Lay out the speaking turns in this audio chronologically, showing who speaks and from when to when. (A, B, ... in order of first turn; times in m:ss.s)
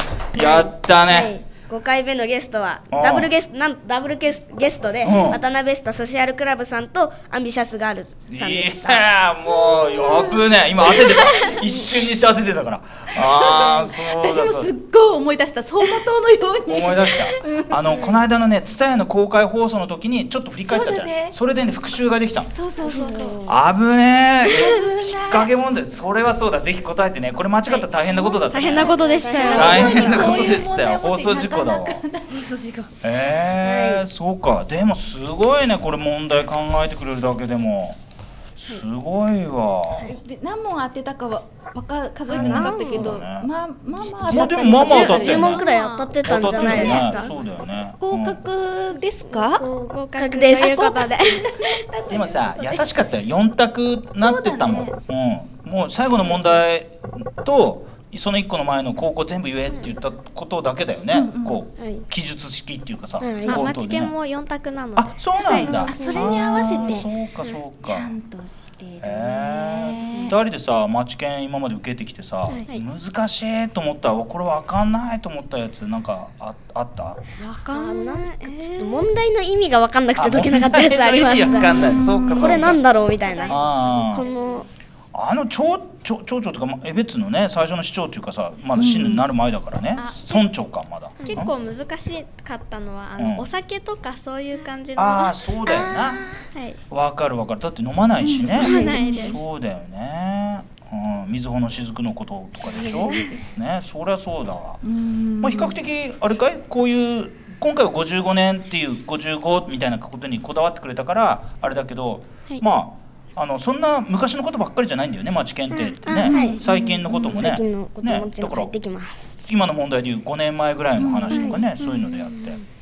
0:00.3-0:01.3 A
0:00.3-0:09.0 B
0:02.9-0:03.3 A
0:05.0-0:05.4 A
0:08.3-0:14.7 A
0:11.3-0:11.7 B
0:13.1-0:18.1 C
0:16.6-0:22.5 A
0:20.7-0:21.4 C
0:22.5-0:23.4 C
0:22.8-0:23.6 B
0:23.4-0:32.0 A
0:24.4-0:25.5 C
0:28.1-0:32.9 C
0:28.5-0:30.6 D
0:28.8-0:30.6 B
0:33.0-0:38.0 A
0:33.5-0:34.0 B
0:38.6-0:40.1 A
0:40.1-0:45.6 C
0:42.3-0:43.1 B
0:42.3-0:43.5 A
0:44.2-0:45.6 A
0:44.3-0:47.3 B
0:44.8-0:47.4 D
0:46.2-0:48.4 A
0:48.0-0:49.7 C
0:49.6-0:51.8 D
0:50.1-0:51.2 B
0:50.6-0:52.9 C
0:52.1-1:04.1 A
0:54.1-0:55.0 C
1:01.1-1:01.6 C
1:01.8-1:02.0 B
1:03.2-1:03.7 B
1:03.4-1:05.9 D
1:05.0-1:08.1 A
1:05.4-1:07.1 C
1:05.9-1:06.4 B
1:07.8-1:10.4 C
1:09.0-1:17.2 A
1:17.4-1:19.1 D
1:17.7-1:24.7 B
1:20.2-1:22.8 A
1:21.7-1:22.6 C
1:21.8-1:24.5 D
1:23.5-1:24.3 A
1:25.1-1:31.5 A
1:28.8-1:29.2 C
1:30.0-1:30.4 D
1:31.2-1:35.4 D
1:33.2-1:33.5 A
1:35.0-1:36.4 A
1:36.5-1:36.8 D
1:36.9-1:44.8 A
1:38.2-1:39.4 C
1:38.5-1:39.4 D
1:43.0-1:43.3 D
1:44.8-1:45.8 C
1:45.4-1:58.7 A
1:55.7-1:56.6 B
1:56.3-1:57.4 C
1:57.2-1:59.4 B
1:59.4-2:02.6 A
2:01.0-2:01.6 C
2:01.3-2:01.6 B
2:01.8-2:02.5 D